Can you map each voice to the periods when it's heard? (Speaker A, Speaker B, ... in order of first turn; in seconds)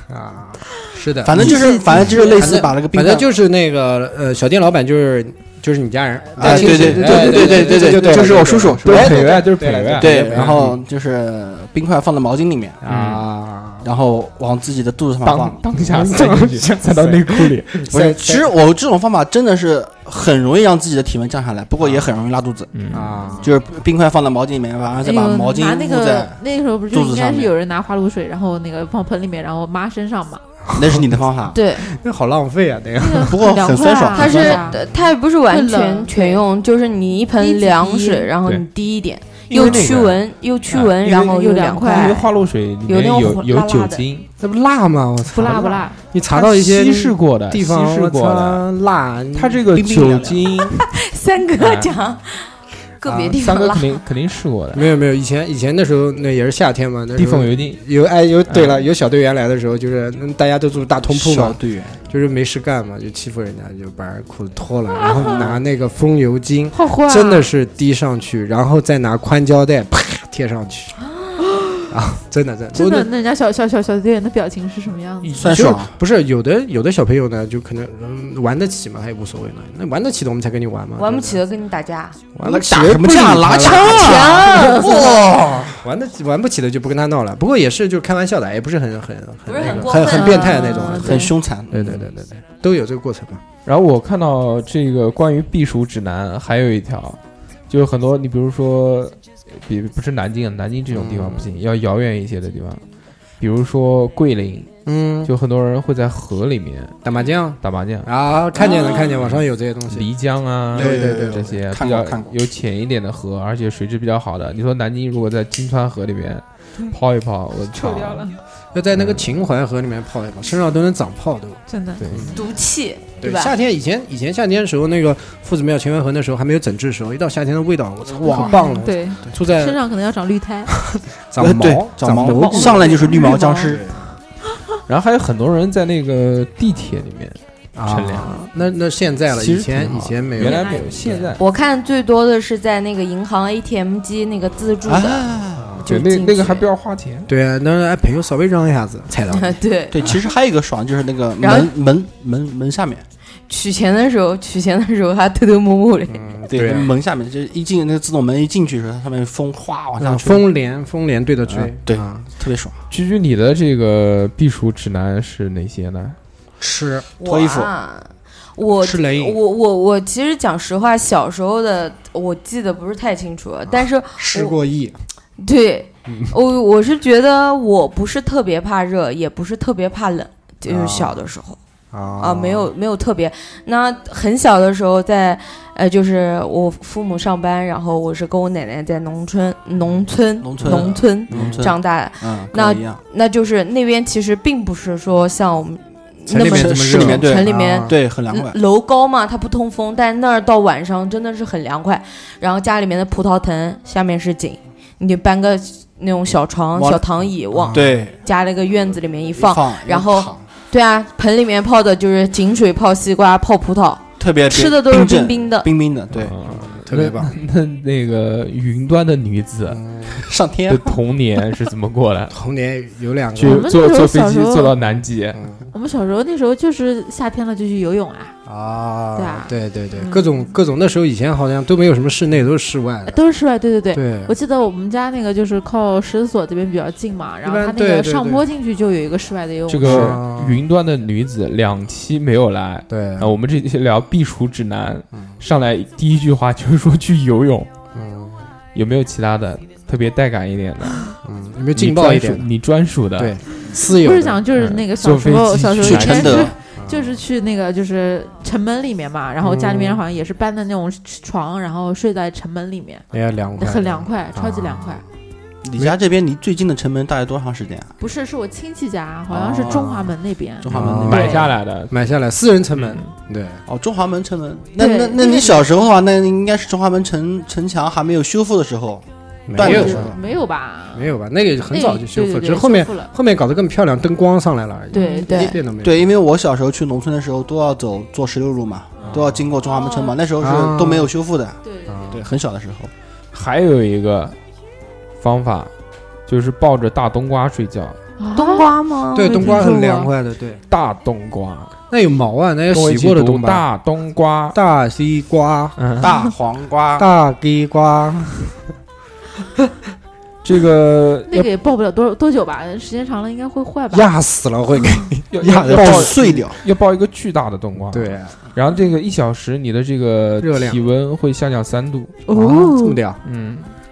Speaker A: 0.1-10.7, 12.8-13.9, 15.7-18.5, 22.9-23.5, 30.7-31.0, 31.8-33.4, 44.4-49.6, 54.7-70.9, 71.9-73.1, 75.4-81.4, 82.3-93.4, 100.9-101.5, 104.8-105.3, 107.0-110.1, 110.7-111.5, 118.7-122.4, 123.2-129.8, 130.7-134.0, 137.7-141.3, 145.6-145.9, 147.3-149.6, 156.1-156.9, 160.0-162.3, 166.6-167.1, 168.8-169.4, 173.7-175.0, 176.1-176.3, 180.6-181.2, 181.9-182.7, 190.6-191.7, 196.3-197.9, 207.5-208.1, 216.2-217.4, 219.7-220.2, 222.3-223.7, 225.3-225.7, 228.4-233.2, 233.9-234.3, 237.4-238.5, 239.8-240.6, 242.9-243.3, 245.1-245.4, 247.9-248.5, 251.2-252.5, 253.2-254.6, 256.8-257.2, 259.4-260.0, 263.1-265.0, 269.3-270.1, 270.7-273.6, 279.5-280.2, 280.9-286.0, 289.1-289.5, 290.4-291.1, 291.9-292.2, 299.1-300.6, 301.9-303.6, 304.5-305.8, 307.0-308.5, 313.9-316.5, 317.9-318.4, 320.4-320.8, 322.3-323.2
Speaker B: 1.2-3.3, 6.3-9.4, 10.0-12.8, 13.8-15.6, 17.9-22.7, 23.4-26.4, 26.9-27.5, 30.7-31.6, 33.2-34.7, 49.7-50.6, 61.1-62.0, 75.4-76.0, 82.4-85.8, 91.0-92.0, 110.7-112.3, 131.4-133.8, 144.8-145.7, 149.9-153.0, 156.5-160.5, 161.5-162.8, 167.2-167.7, 190.4-193.0, 196.3-198.6, 206.7-207.0, 207.7-208.2, 209.3-210.4, 214.2-216.3, 220.1-221.0, 255.8-256.5, 265.6-267.9, 269.5-269.9, 270.6-271.4, 273.7-280.2, 285.8-291.6, 292.1-292.9, 306.0-307.1, 315.4-316.6
Speaker C: 1.4-2.3, 25.0-30.4, 33.0-34.8, 35.5-36.4, 37.4-38.3, 39.5-39.8, 41.1-42.2, 45.3-46.0, 64.9-65.5, 66.7-67.5, 72.7-75.5, 90.0-91.3, 108.7-109.0, 117.7-118.4, 121.7-122.3, 128.2-130.7, 132.2-133.8, 140.4-141.0, 223.4-224.7, 225.7-228.3, 229.2-230.3, 233.0-240.2, 253.6-263.1, 263.6-265.0, 268.0-271.4, 274.8-275.6, 279.6-281.2, 281.7-283.1, 284.9-285.6, 289.0-290.1, 291.6-292.1, 298.2-298.7, 299.2-300.1, 311.3-314.1, 322.3-323.0
Speaker D: 6.5-10.7, 12.9-13.2, 15.2-17.9, 22.7-23.2, 39.5-44.3, 46.2-48.6, 49.3-50.9, 51.5-51.9, 53.0-54.9, 57.1-57.8, 58.5-58.9, 93.7-102.8, 103.4-107.0, 107.6-108.1, 109.0-118.3, 118.9-119.3, 122.0-122.4, 134.9-138.6, 139.3-141.4, 145.8-147.3, 162.9-166.2, 216.1-219.8, 220.7-222.3, 223.3-225.4, 239.7-247.7, 248.7-251.1, 251.7-253.6, 254.5-256.5, 270.7-271.9, 272.8-273.1, 293.3-294.4, 295.2-295.7, 296.3-298.0, 300.7-301.7, 302.7-304.6, 305.8-306.2, 310.4-311.5, 315.3-322.2, 323.2-323.7
Speaker E: 31.5-31.9, 34.1-42.3, 42.9-44.0, 50.8-54.0, 71.0-71.4, 81.0-82.2, 83.6-85.3, 89.5-91.2, 108.6-108.9, 122.3-123.5, 141.4-146.7, 149.3-150.2, 151.4-151.7, 153.5-156.2, 167.2-174.6, 175.4-181.6, 182.2-215.7, 284.9-285.6, 298.3-299.6